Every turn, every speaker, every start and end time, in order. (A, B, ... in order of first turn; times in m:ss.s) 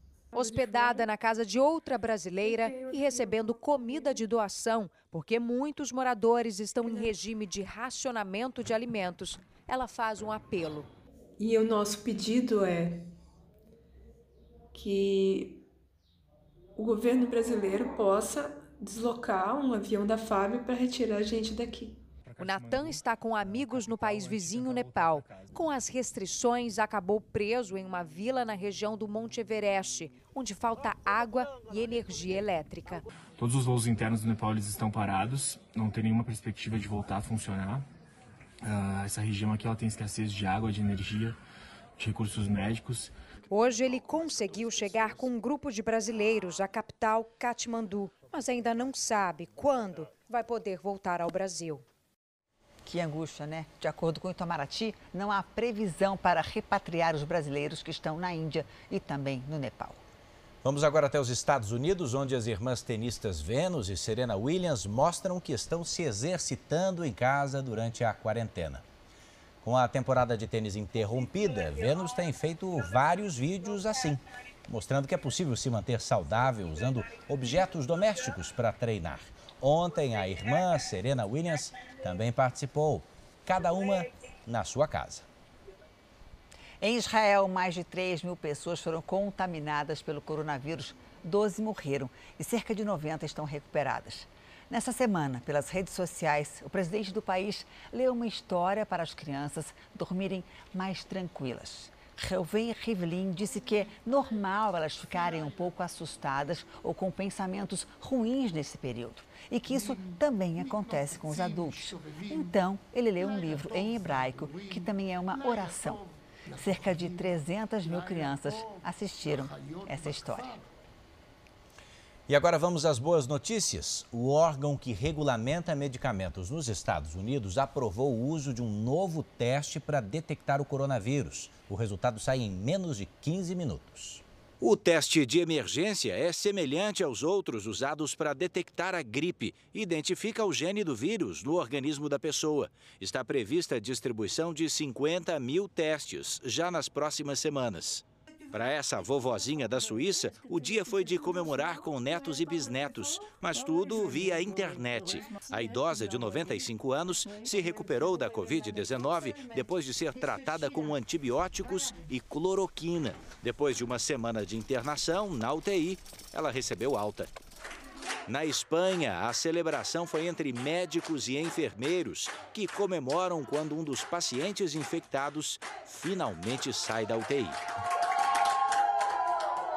0:00.3-0:01.1 A
0:00.3-0:10.9 B
0:02.4-0:04.2 A
0:06.8-0:07.1 A
0:11.4-0:13.0 A
0:14.7-0:15.6 A
0:16.8-0:22.0 A
0:22.4-0:33.0 B
0:33.5-0:37.8 C
0:39.0-0:41.3 C
0:42.1-0:43.0 C
0:43.5-0:51.8 B
0:52.8-1:00.0 D
1:00.6-1:08.8 E
1:09.6-1:25.2 E
1:26.8-1:56.0 D
1:56.6-2:00.6 D
2:02.3-2:47.3 E
2:48.3-2:57.6 E